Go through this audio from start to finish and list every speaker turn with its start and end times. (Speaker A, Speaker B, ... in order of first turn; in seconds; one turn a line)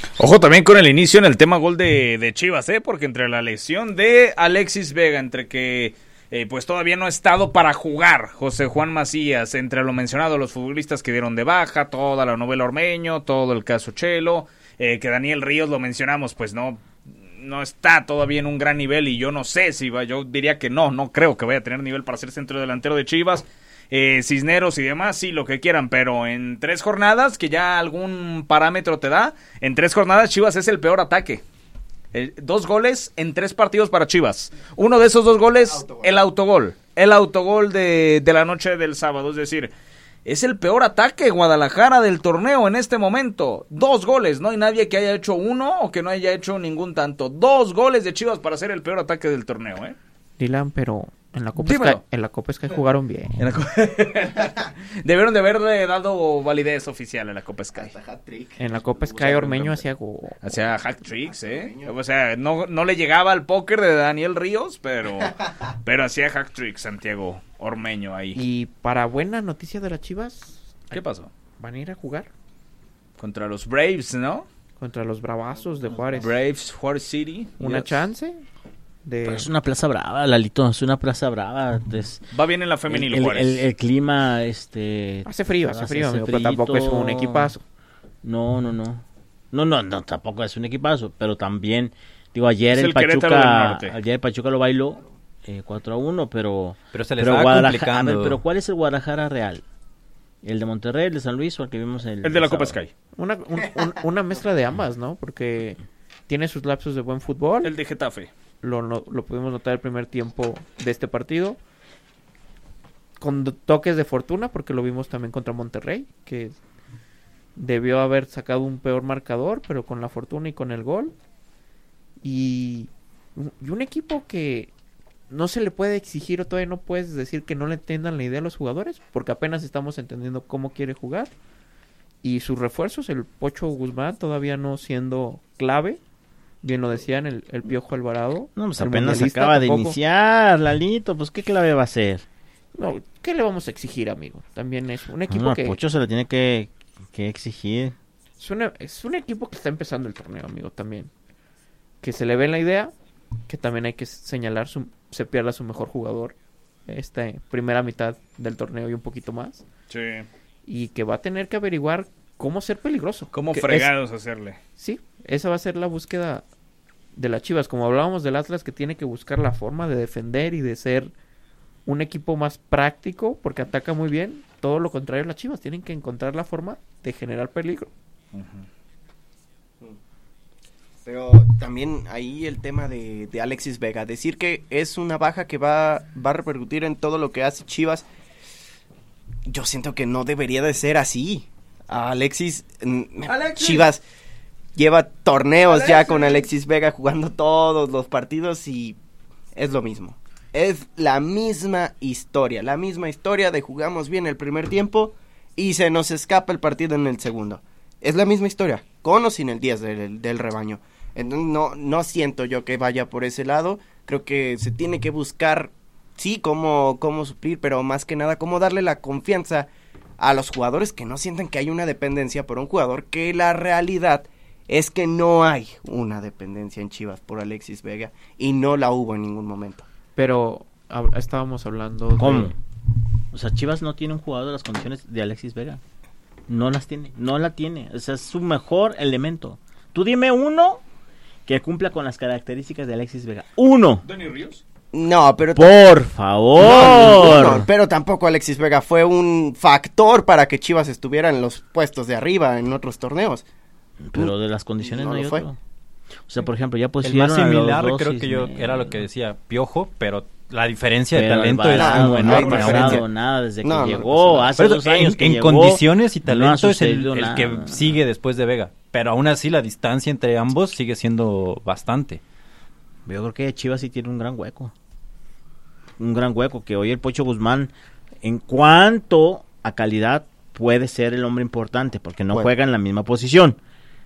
Speaker A: 0.2-31.4
Speaker A: 32.1-39.7
Speaker B: 35.6-36.1
Speaker A: 40.2-50.0
Speaker C: 50.4-53.4
Speaker A: 51.6-52.0
Speaker A: 53.4-57.9
Speaker B: 57.7-59.9
Speaker C: 58.6-60.4
Speaker A: 60.4-68.4
Speaker B: 61.1-61.9
Speaker B: 65.2-65.5
Speaker C: 68.3-71.0
Speaker A: 70.9-71.3
Speaker C: 71.6-72.3
Speaker A: 73.2-74.5
Speaker C: 74.8-76.3
Speaker A: 76.2-78.0
Speaker C: 77.6-78.4
Speaker C: 79.0-79.5
Speaker D: 79.2-82.2
Speaker A: 82.3-83.7
Speaker D: 82.9-87.5
Speaker C: 85.2-87.6
Speaker D: 88.2-99.6
Speaker A: 92.7-94.0
Speaker E: 96.9-98.4
Speaker D: 100.4-102.8
Speaker A: 102.2-102.9
Speaker C: 103.2-107.7
Speaker A: 107.6-108.3
Speaker C: 108.6-111.6
Speaker C: 113.2-116.5
Speaker C: 117.5-121.1
Speaker C: 122.2-124.7
Speaker C: 125.3-131.3
Speaker C: 132.2-136.0
Speaker C: 136.6-140.0
Speaker D: 138.6-142.2
Speaker C: 142.7-145.8
Speaker D: 145.3-147.9
Speaker C: 148.4-151.1
Speaker C: 152.0-152.9
Speaker C: 153.5-156.3
Speaker C: 156.9-159.6
Speaker A: 159.9-160.3
Speaker C: 160.7-163.9
Speaker A: 163.3-164.6
Speaker C: 164.8-166.4
Speaker C: 167.1-171.1
Speaker C: 171.8-177.9
Speaker A: 178.3-178.7
Speaker B: 181.0-188.1
Speaker B: 189.5-194.0
Speaker A: 193.2-193.9
Speaker B: 194.8-199.0
Speaker A: 195.7-196.5
Speaker B: 199.5-229.8
Speaker C: 230.2-232.5
Speaker D: 232.2-232.6
Speaker D: 233.3-235.8
Speaker D: 236.5-240.8
Speaker D: 241.4-244.0
Speaker A: 244.0-244.6
Speaker B: 244.9-245.8
Speaker D: 245.5-247.7
Speaker B: 246.6-253.4
Speaker D: 254.0-255.6
Speaker B: 254.2-255.4
Speaker D: 256.3-259.0
Speaker E: 257.0-263.0
Speaker D: 261.1-268.0
Speaker B: 261.7-263.1
Speaker B: 263.6-264.5
Speaker E: 264.6-272.2
Speaker D: 273.1-274.7
Speaker D: 276.0-277.7
Speaker D: 278.2-283.6